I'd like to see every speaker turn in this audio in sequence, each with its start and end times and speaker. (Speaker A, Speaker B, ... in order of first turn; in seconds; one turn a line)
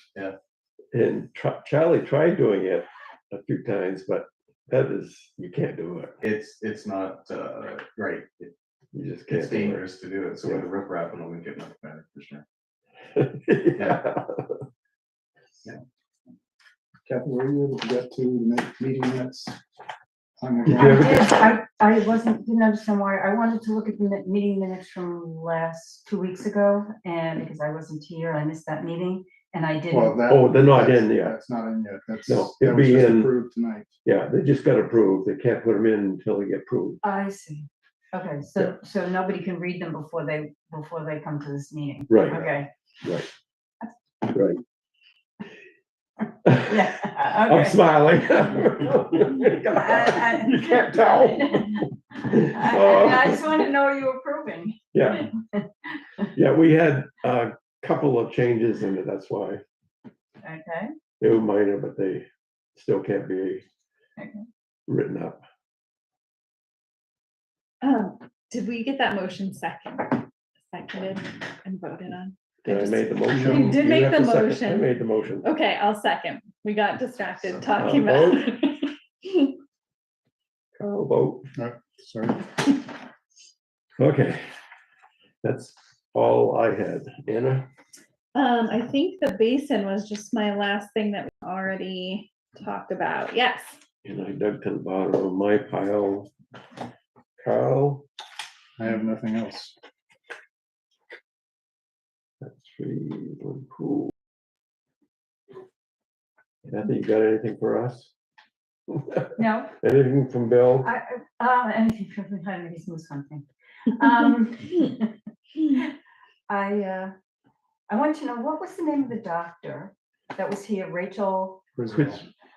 Speaker A: 0.9-6.1
Speaker B: 6.2-8.5
Speaker A: 8.9-9.8
Speaker B: 9.3-12.4
Speaker A: 13.1-14.6
Speaker B: 13.8-14.0
Speaker C: 17.1-19.6
Speaker C: 20.4-21.0
Speaker A: 20.7-21.5
Speaker D: 20.7-30.2
Speaker C: 29.9-33.9
Speaker A: 30.3-31.4
Speaker A: 32.3-33.3
Speaker A: 34.0-37.0
Speaker D: 37.0-42.7
Speaker A: 42.1-42.5
Speaker A: 44.3-44.6
Speaker A: 46.5-46.7
Speaker D: 46.5-47.8
Speaker A: 47.4-53.4
Speaker D: 49.6-56.3
Speaker A: 54.9-55.3
Speaker A: 56.3-59.6
Speaker D: 60.4-60.9
Speaker A: 61.2-63.6
Speaker D: 64.2-64.4
Speaker A: 64.9-65.4
Speaker E: 67.8-79.5
Speaker A: 72.6-75.5
Speaker C: 73.3-73.8
Speaker A: 77.8-78.5
Speaker A: 80.8-81.5
Speaker C: 81.5-82.5
Speaker A: 84.0-84.4
Speaker A: 85.4-87.7
Speaker E: 88.3-93.8
Speaker A: 94.0-96.3
Speaker A: 97.4-98.0
Speaker C: 98.8-99.7
Speaker A: 102.4-104.1
Speaker A: 106.6-108.1
Speaker A: 108.9-110.9
Speaker D: 109.4-109.7
Speaker D: 110.8-115.9
Speaker D: 116.5-117.1
Speaker D: 117.9-121.6
Speaker C: 121.8-122.2
Speaker A: 121.9-122.3